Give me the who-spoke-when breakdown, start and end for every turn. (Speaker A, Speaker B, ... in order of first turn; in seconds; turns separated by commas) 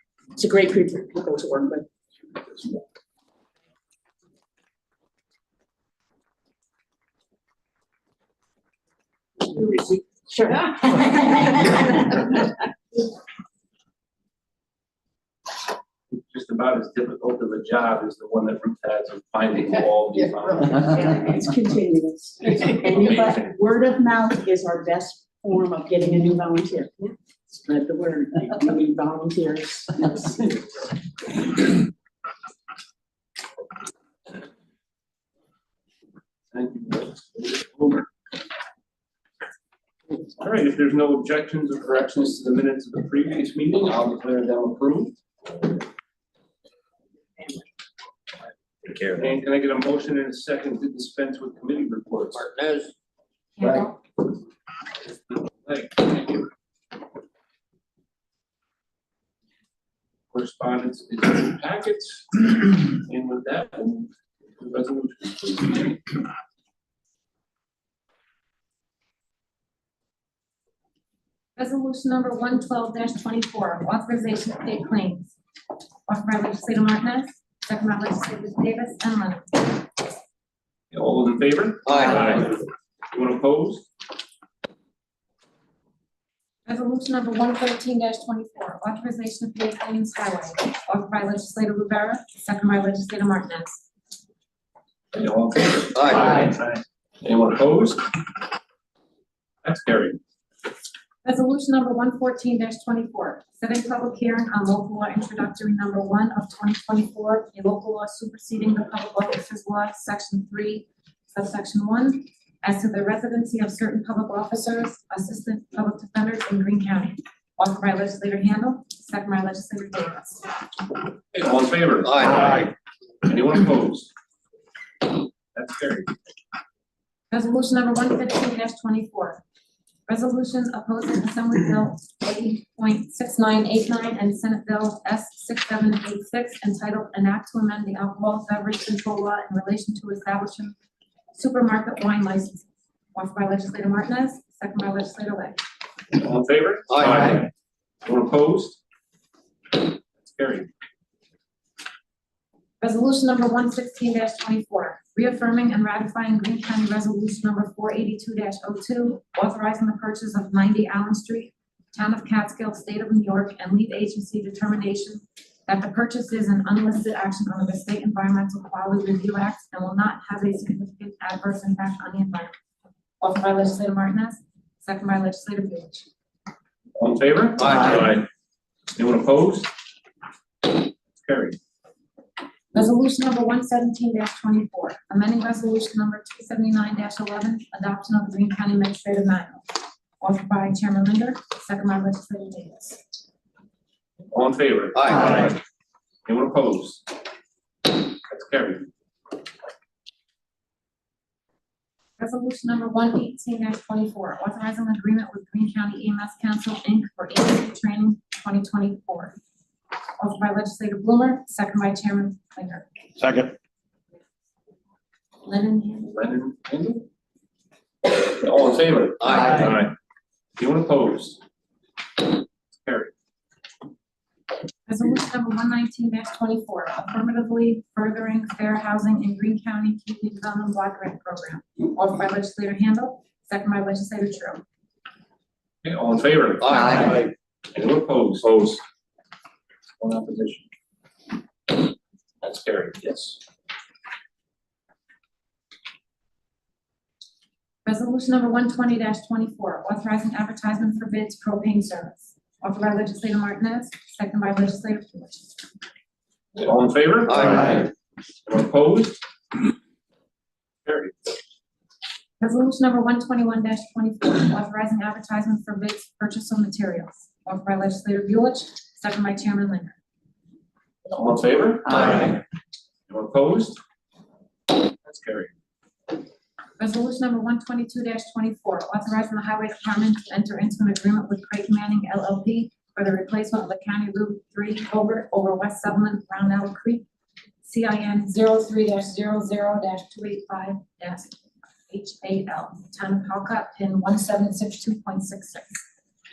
Speaker A: 0.4-1.9, Speaker A: 9.5-12.4, Speaker B: 16.1-21.1, Speaker A: 20.7-30.9, Speaker B: 22.6-23.6, Speaker B: 36.5-38.1, Speaker B: 40.4-45.2, Speaker C: 48.8-49.3, Speaker B: 49.1-52.5, Speaker C: 52.4-52.9, Speaker D: 53.6-54.0, Speaker B: 55.3-56.5, Speaker B: 60.3-66.0, Speaker D: 71.6-75.3, Speaker D: 76.1-79.9, Speaker B: 80.9-83.9, Speaker C: 81.9-82.4, Speaker D: 86.7-93.9, Speaker B: 95.1-98.1, Speaker C: 96.0-96.5, Speaker B: 99.6-100.2, Speaker D: 101.2-120.5, Speaker B: 121.3-124.1, Speaker C: 122.1-122.6, Speaker B: 125.5-126.1, Speaker D: 127.3-129.4, Speaker D: 130.1-140.8, Speaker D: 141.3-145.6, Speaker B: 146.2-147.5, Speaker C: 146.9-147.3, Speaker B: 148.0-148.8, Speaker B: 149.8-150.7, Speaker D: 152.8-172.5, Speaker D: 173.2-176.1, Speaker B: 177.0-178.3, Speaker C: 177.6-178.1, Speaker B: 178.9-179.7, Speaker B: 180.7-181.6, Speaker D: 182.7-193.0, Speaker B: 194.3-195.6, Speaker C: 194.9-195.5, Speaker B: 196.3-197.1, Speaker B: 197.9-198.9, Speaker D: 202.2-209.4, Speaker D: 210.2-212.9, Speaker D: 215.4-216.1, Speaker B: 216.1-217.1, Speaker B: 218.1-219.9, Speaker C: 219.2-219.8, Speaker B: 220.6-221.4, Speaker B: 222.2-223.1, Speaker D: 224.9-234.6, Speaker B: 235.8-238.8, Speaker C: 236.6-237.2, Speaker B: 240.0-240.7, Speaker B: 242.4-243.4, Speaker D: 247.8-255.6, Speaker B: 256.6-257.9, Speaker C: 257.3-257.8, Speaker B: 258.5-259.2, Speaker B: 260.9-261.1, Speaker D: 262.4-270.0, Speaker B: 271.1-272.4, Speaker B: 273.1-273.8, Speaker B: 274.7-275.5, Speaker D: 276.8-287.1, Speaker D: 287.6-295.8